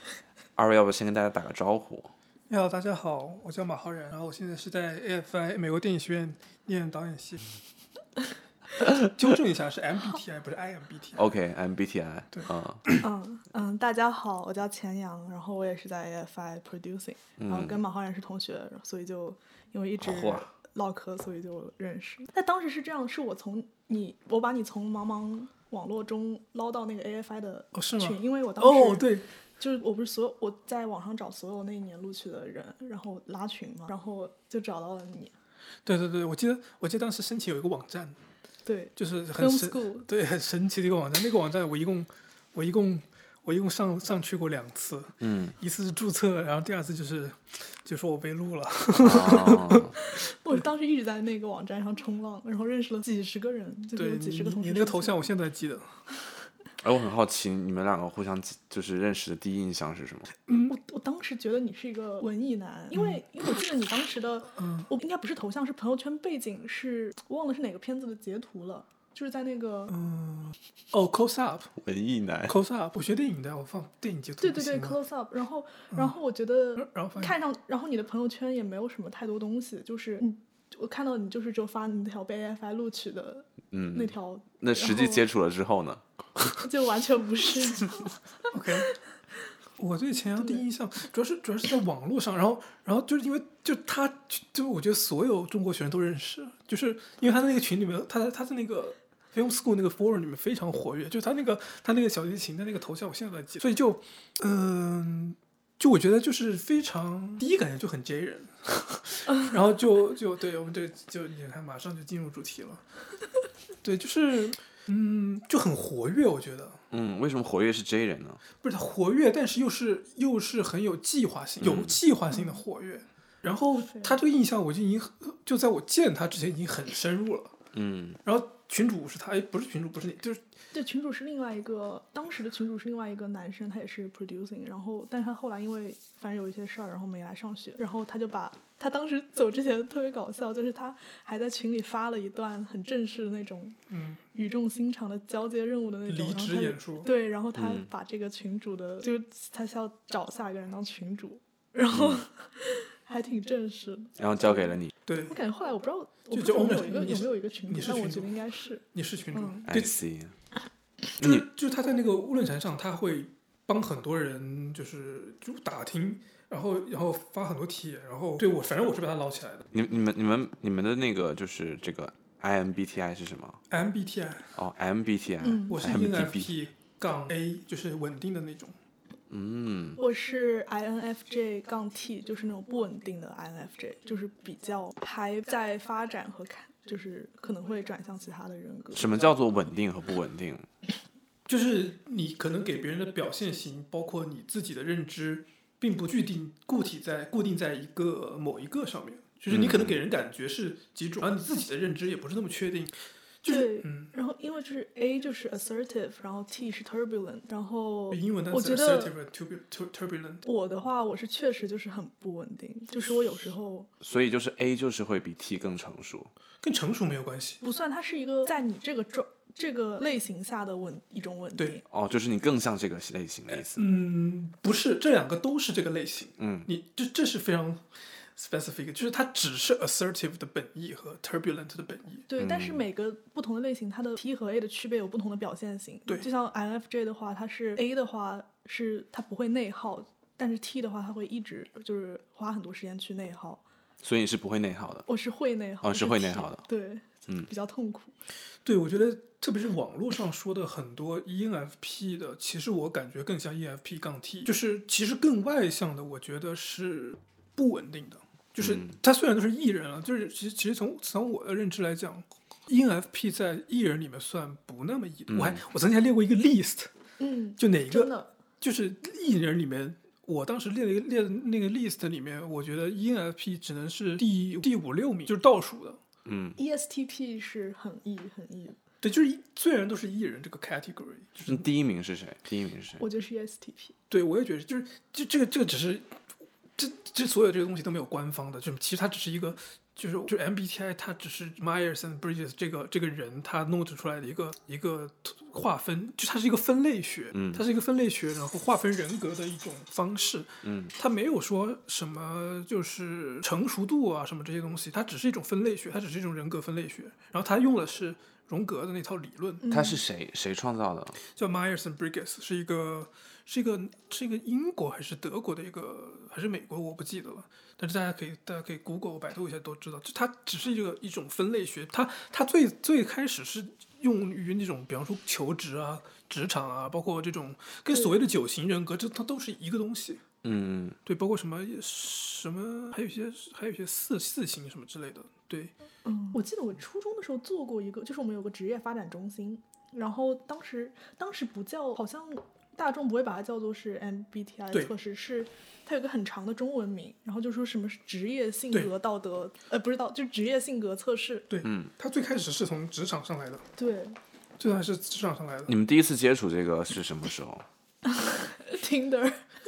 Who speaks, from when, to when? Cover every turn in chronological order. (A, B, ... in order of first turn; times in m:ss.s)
0:00.6-0:02.1 A
0:02.5-0:07.4 B
0:09.0-0:11.2 B
0:11.2-0:12.8 A
0:12.3-0:13.0 B
0:13.0-0:35.3 C
0:17.4-0:17.8 A
0:20.0-0:20.5 A
0:27.7-0:29.2 B
0:35.8-0:38.2 B
0:38.6-0:40.1 C
0:39.0-0:49.9 B
0:45.2-0:45.6 A
0:49.0-0:49.9 A
0:49.6-0:55.3 C
0:54.0-0:55.9 B
0:56.8-1:00.3 A
1:00.6-1:10.0 C
1:02.9-1:03.2 B
1:04.6-1:04.9 B
1:09.9-1:11.7 B
1:11.8-1:12.6 A
1:12.5-1:15.0 B
1:14.4-1:25.3 C
1:16.8-1:17.4 B
1:23.7-1:26.0 A
1:26.6-1:28.2 C
1:28.5-1:28.9 B
1:29.8-1:52.8 B
1:30.4-1:30.6 C
1:53.8-1:56.8 B
1:56.9-1:58.4 A
1:58.6-2:07.6 B
2:01.6-2:02.0 A
2:02.3-2:02.6 C
2:03.9-2:04.2 C
2:07.7-2:08.2 A
2:08.2-2:10.4 B
2:10.7-2:23.8 C
2:23.9-2:24.2 B
2:24.3-2:39.7 C
2:26.1-2:27.1 B
2:27.6-2:27.9 A
2:31.9-2:32.2 A
2:34.2-2:34.9 A
2:35.1-2:35.4 B
2:36.3-2:40.0 B
2:39.7-2:40.3 A
2:41.1-2:49.7 B
2:41.2-2:41.5 A
2:49.7-2:53.6 A
2:53.7-2:54.6 B
2:54.6-2:56.5 A
2:55.4-2:55.8 C
2:55.7-2:58.7 B
2:59.3-3:00.0 A
3:00.0-3:09.4 C
3:08.9-3:10.7 A
3:11.5-3:24.1 B
3:19.5-3:20.0 A
3:23.4-3:29.1 C
3:28.1-3:30.4 B
3:30.4-3:33.9 C
3:34.0-3:36.3 A
3:36.6-3:37.6 B
3:37.6-3:41.8 C
3:41.9-3:43.8 A
3:43.7-3:47.8 B
3:46.4-3:46.7 A
3:48.4-3:52.3 B
3:52.3-4:03.6 C
3:52.4-3:52.8 A
4:04.0-4:05.1 A
4:05.1-4:08.1 C
4:05.8-4:06.6 A
4:08.6-4:26.9 B
4:18.6-4:19.0 A
4:25.3-4:25.6 A
4:27.2-4:28.3 C
4:27.6-4:36.0 B
4:36.2-4:36.6 A
4:36.6-4:38.8 C
4:39.0-4:41.6 B
4:41.4-4:43.0 A
4:43.0-4:44.0 C
4:44.1-4:46.1 B
4:46.8-5:09.6 B
4:57.3-4:57.7 A
5:00.6-5:00.9 A
5:09.6-5:10.0 C
5:09.7-5:11.2 A
5:11.4-5:30.2 B
5:30.4-5:31.0 A
5:31.1-5:35.7 B
5:36.0-5:51.5 C
5:51.5-5:53.7 B
5:51.6-5:51.9 A
5:53.8-5:54.2 C
5:54.6-5:55.7 B
5:55.7-5:57.6 A
5:58.1-5:59.4 C